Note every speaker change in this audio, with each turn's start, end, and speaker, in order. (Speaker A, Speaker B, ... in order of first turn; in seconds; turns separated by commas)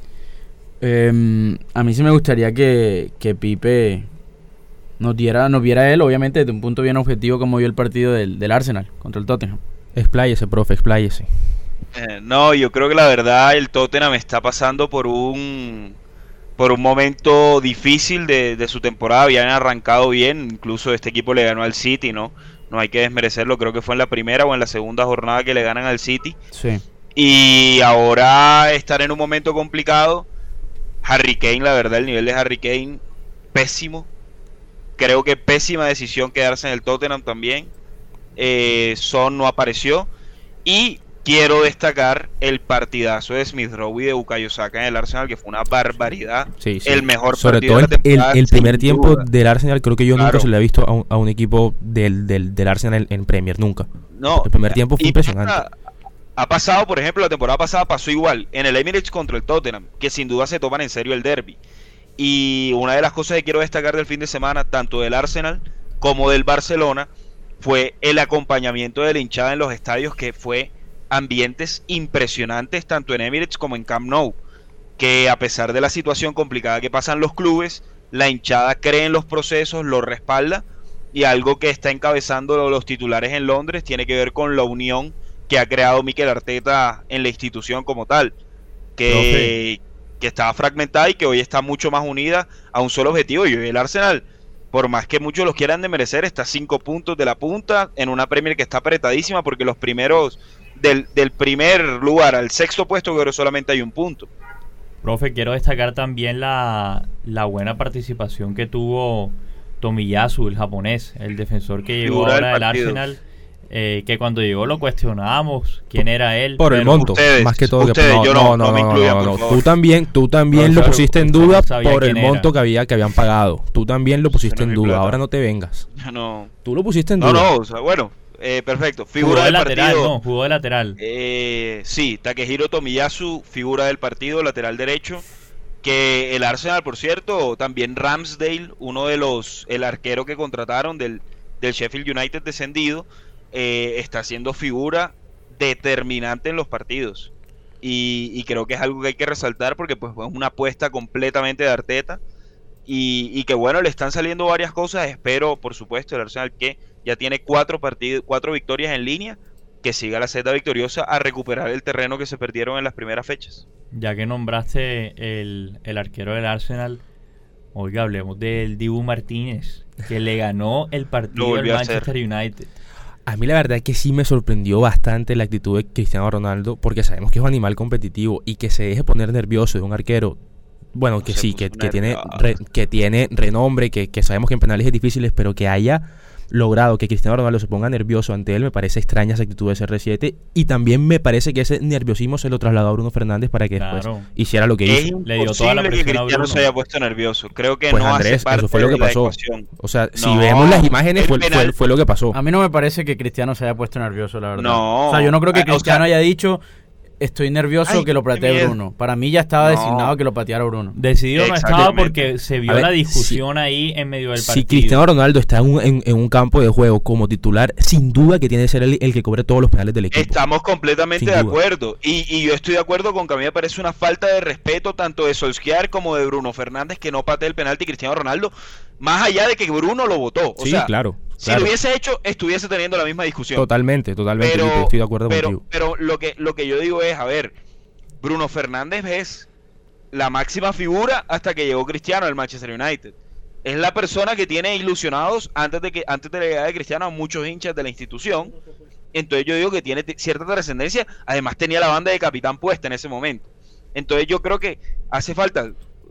Speaker A: 0.8-4.1, Speaker A: 5.0-9.6, Speaker B: 9.9-11.3, Speaker C: 11.9-15.9, Speaker C: 16.6-26.4, Speaker A: 26.5-26.8, Speaker C: 27.1-30.3, Speaker C: 31.0-33.0, Speaker C: 33.5-34.1, Speaker C: 35.0-37.7, Speaker C: 38.4-40.1, Speaker C: 40.6-49.2, Speaker B: 46.6-55.6, Speaker C: 50.1-50.5, Speaker C: 54.1-55.7, Speaker C: 56.4-61.6, Speaker C: 62.2-74.4, Speaker C: 75.0-88.3, Speaker C: 89.0-104.3, Speaker D: 89.1-89.5, Speaker D: 105.0-117.2, Speaker C: 112.0-113.0, Speaker B: 116.6-125.9, Speaker C: 116.9-119.6, Speaker D: 120.5-122.5, Speaker C: 124.3-125.2, Speaker C: 126.0-126.5, Speaker B: 126.6-127.5, Speaker C: 127.2-130.1, Speaker D: 129.2-131.0, Speaker C: 131.0-135.2, Speaker C: 135.8-152.2, Speaker C: 152.9-163.6, Speaker D: 163.9-167.0, Speaker D: 167.7-172.7, Speaker C: 171.3-172.1, Speaker B: 173.2-180.4, Speaker B: 180.9-195.1, Speaker C: 181.2-182.4, Speaker D: 193.8-194.3, Speaker C: 194.8-201.7, Speaker D: 195.2-196.7, Speaker B: 197.9-202.3, Speaker A: 202.3-206.6, Speaker C: 204.6-206.1, Speaker A: 207.2-210.9, Speaker C: 207.8-208.8, Speaker C: 209.6-210.1, Speaker D: 210.9-215.0, Speaker C: 211.3-212.2, Speaker B: 212.7-213.4, Speaker B: 214.4-220.4, Speaker C: 220.1-233.7, Speaker B: 221.2-221.6, Speaker B: 230.6-231.7, Speaker B: 233.5-235.6, Speaker C: 234.4-237.5, Speaker C: 238.2-239.5, Speaker C: 240.1-248.6, Speaker C: 249.1-255.8